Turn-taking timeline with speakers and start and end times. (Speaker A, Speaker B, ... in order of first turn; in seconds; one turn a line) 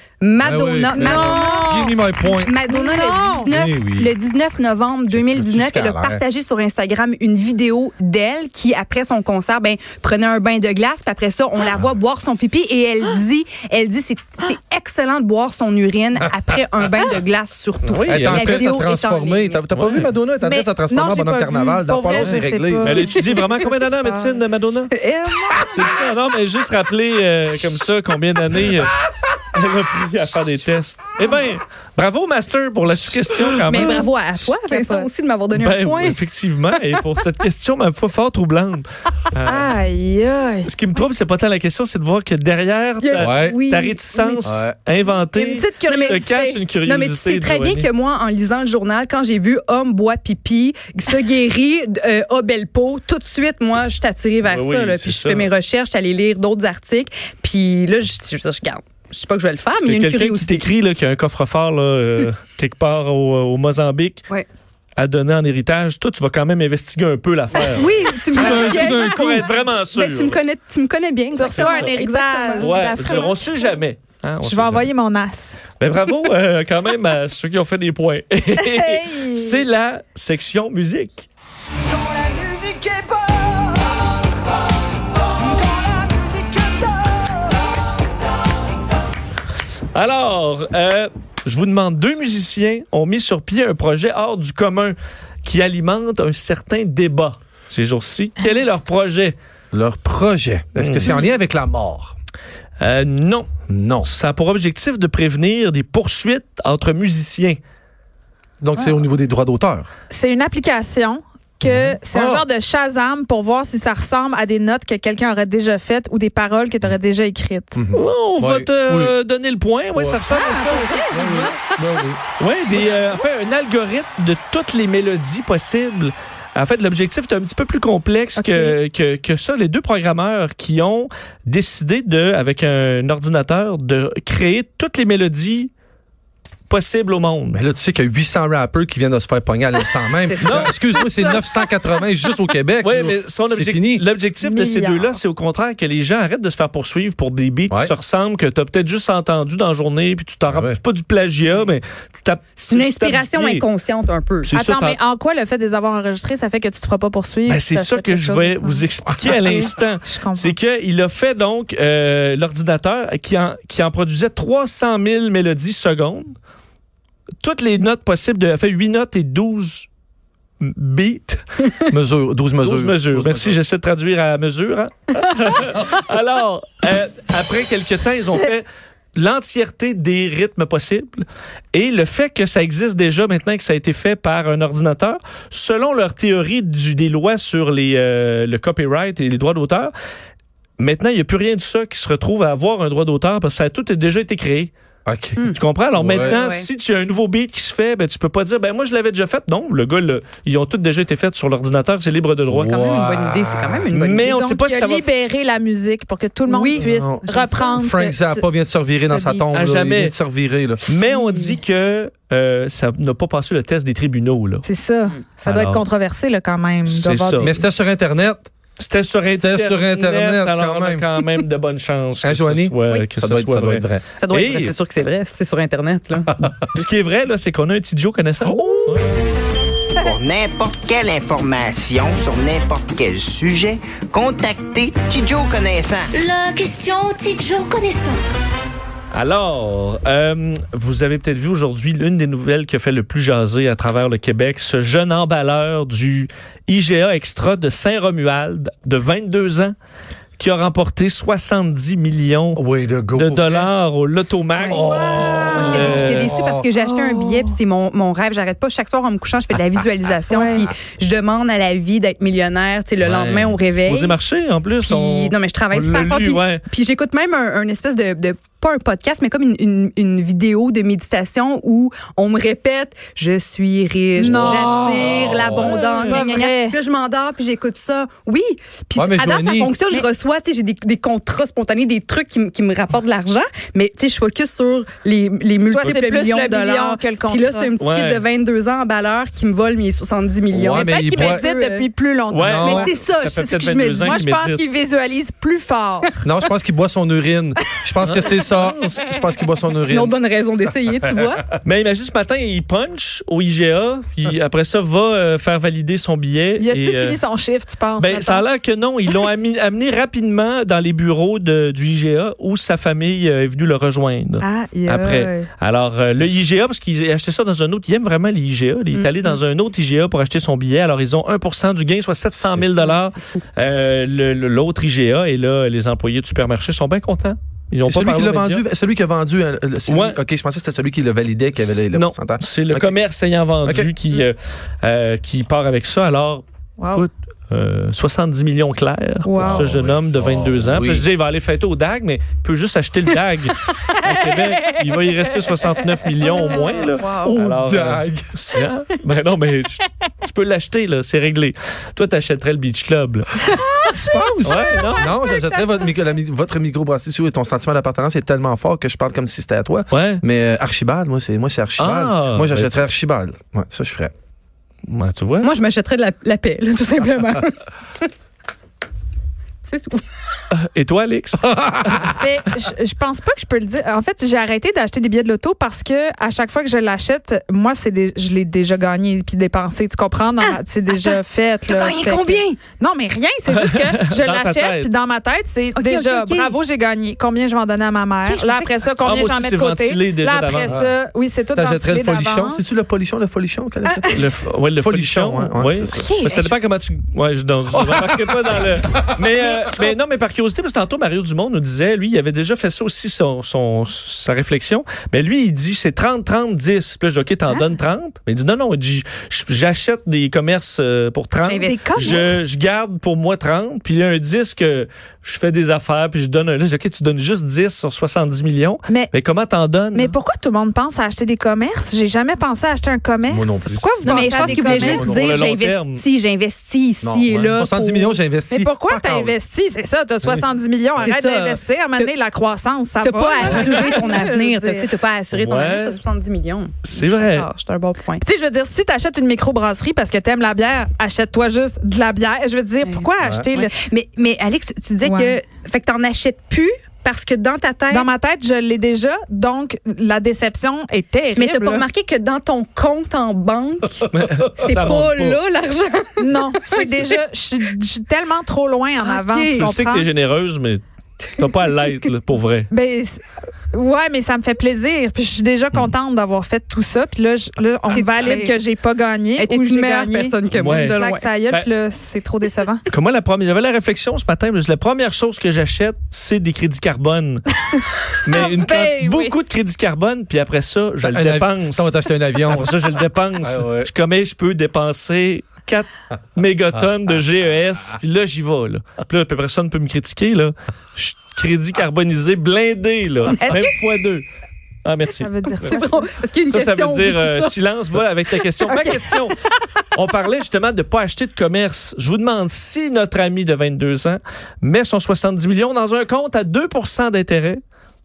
Speaker A: 0.2-19.6
Speaker B: 0.4-2.6
Speaker C: 0.9-2.0
Speaker C: 2.7-3.5
Speaker B: 3.5-4.2
Speaker B: 5.1-6.2
Speaker B: 16.2-16.5
Speaker D: 17.9-18.6
Speaker B: 18.0-23.0
Speaker D: 19.7-20.2
Speaker C: 20.4-24.4
Speaker D: 22.9-24.9
Speaker A: 24.9-25.9
Speaker D: 25.6-29.0
Speaker D: 29.5-34.1
Speaker A: 33.6-36.2
Speaker C: 34.5-35.1
Speaker D: 35.5-39.7
Speaker C: 39.5-40.7
Speaker D: 40.6-47.9
Speaker A: 43.0-44.6
Speaker B: 43.2-43.6
Speaker B: 44.4-44.8
Speaker C: 45.1-46.6
Speaker A: 45.9-46.2
Speaker A: 46.8-60.7
Speaker D: 54.5-55.5
Speaker D: 59.8-64.2
Speaker D: 65.0-70.4
Speaker A: 67.7-69.2
Speaker B: 68.3-69.5
Speaker A: 69.9-73.1
Speaker C: 71.3-73.8
Speaker D: 71.5-71.9
Speaker D: 72.6-74.9
Speaker C: 74.4-75.6
Speaker D: 75.8-81.3
Speaker C: 78.5-79.7
Speaker C: 81.9-84.1
Speaker C: 85.2-87.6
Speaker D: 89.9-99.4
Speaker B: 99.7-102.2
Speaker D: 100.8-101.2
Speaker D: 102.8-103.5
Speaker B: 103.7-104.1
Speaker D: 104.0-107.6
Speaker B: 108.6-109.9
Speaker C: 108.8-109.0
Speaker C: 110.1-117.8
Speaker B: 111.7-112.5
Speaker B: 117.8-119.2
Speaker D: 117.9-121.5
Speaker B: 120.0-120.2
Speaker C: 120.3-121.4
Speaker B: 121.1-122.2
Speaker D: 122.4-135.7
Speaker C: 122.8-123.0
Speaker C: 128.4-128.8
Speaker D: 136.7-137.6
Speaker B: 137.5-144.0
Speaker A: 140.2-141.7
Speaker D: 140.4-140.7
Speaker D: 142.8-153.7
Speaker C: 144.4-145.2
Speaker B: 150.5-150.8
Speaker A: 152.6-154.5
Speaker D: 154.4-155.0
Speaker C: 154.5-160.6
Speaker D: 157.5-166.3
Speaker D: 167.4-169.9
Speaker D: 170.6-171.7
Speaker B: 171.9-173.6
Speaker D: 172.6-189.9
Speaker D: 190.8-194.7
Speaker B: 195.1-195.4
Speaker D: 195.4-202.8
Speaker B: 196.0-196.4
Speaker A: 196.2-196.7
Speaker B: 202.5-203.9
Speaker A: 202.6-204.3
Speaker D: 203.9-205.1
Speaker C: 204.2-209.5
Speaker A: 206.5-207.6
Speaker B: 206.8-210.9
Speaker D: 209.5-210.1
Speaker D: 210.8-214.7
Speaker C: 211.1-211.6
Speaker C: 214.7-217.6
Speaker D: 215.4-215.9
Speaker D: 216.9-217.6
Speaker B: 217.4-218.5
Speaker D: 218.8-224.8
Speaker B: 219.2-221.1
Speaker B: 222.2-224.0
Speaker A: 224.2-226.3
Speaker D: 226.7-229.1
Speaker B: 228.5-228.9
Speaker E: 230.0-236.2
Speaker F: 236.1-238.2
Speaker D: 239.1-249.8
Speaker D: 250.4-256.4
Speaker B: 252.6-253.7
Speaker C: 254.6-255.9
Speaker B: 254.7-256.7
Speaker A: 255.5-264.2
Speaker C: 256.8-257.5
Speaker C: 260.3-260.7
Speaker D: 263.0-266.6
Speaker A: 264.8-291.9
Speaker C: 274.2-276.8
Speaker B: 274.5-275.8
Speaker B: 279.0-279.8
Speaker C: 285.6-287.7
Speaker D: 287.8-288.2
Speaker B: 290.5-291.5
Speaker C: 290.8-292.9
Speaker D: 292.3-294.6
Speaker B: 292.5-292.9
Speaker A: 292.6-294.1
Speaker C: 294.0-296.2
Speaker B: 296.2-300.2
Speaker D: 298.0-298.9
Speaker A: 299.7-301.4
Speaker B: 301.2-301.5
Speaker D: 301.6-307.2
Speaker C: 306.6-308.5
Speaker D: 308.0-328.7
Speaker C: 314.4-315.5
Speaker C: 318.9-319.4
Speaker B: 322.3-322.9
Speaker A: 323.1-323.4
Speaker B: 327.8-333.0
Speaker D: 329.9-330.2
Speaker D: 331.6-353.5
Speaker B: 333.6-333.9
Speaker C: 336.8-337.1
Speaker C: 339.2-339.8
Speaker B: 339.4-341.1
Speaker C: 344.3-347.3
Speaker A: 346.5-347.4
Speaker B: 347.3-348.3
Speaker C: 353.5-356.0
Speaker B: 353.5-364.1
Speaker D: 354.4-355.1
Speaker D: 359.9-360.2
Speaker D: 361.8-362.8
Speaker D: 364.9-365.5
Speaker A: 365.4-368.1
Speaker A: 369.6-370.1
Speaker D: 370.5-372.1
Speaker B: 371.4-372.2
Speaker C: 372.2-392.6
Speaker A: 380.4-382.6
Speaker D: 383.5-384.9
Speaker A: 385.7-386.6
Speaker A: 388.2-389.2
Speaker D: 389.0-390.8
Speaker B: 390.7-390.9
Speaker B: 391.5-396.3
Speaker D: 394.1-420.2
Speaker A: 395.9-396.5
Speaker B: 397.8-399.2
Speaker A: 399.4-399.9
Speaker A: 411.5-412.2
Speaker C: 411.5-412.4
Speaker C: 419.9-425.2
Speaker B: 423.3-425.5
Speaker A: 424.0-428.6
Speaker D: 424.8-426.0
Speaker B: 427.0-429.3
Speaker C: 428.5-434.9
Speaker A: 431.0-432.1
Speaker A: 433.0-438.2
Speaker D: 435.3-436.0
Speaker D: 436.8-437.5
Speaker C: 438.2-443.7
Speaker A: 442.8-448.1
Speaker C: 445.0-445.4
Speaker C: 447.9-451.9
Speaker A: 451.4-457.2
Speaker B: 454.1-454.4
Speaker D: 454.2-455.4
Speaker C: 456.2-460.1
Speaker A: 459.0-459.7
Speaker D: 459.6-460.8
Speaker D: 461.3-462.7
Speaker A: 461.4-461.9
Speaker C: 462.7-463.2
Speaker C: 463.7-472.8
Speaker A: 467.9-468.6
Speaker A: 469.4-471.3
Speaker D: 470.5-471.7
Speaker D: 472.9-477.5
Speaker C: 477.7-479.4
Speaker D: 478.2-481.9
Speaker B: 481.0-483.9
Speaker D: 482.5-494.2
Speaker C: 493.4-494.0
Speaker D: 494.9-495.8
Speaker C: 495.1-496.1
Speaker A: 495.6-497.6
Speaker D: 496.5-499.4
Speaker C: 498.6-499.4
Speaker D: 499.9-507.6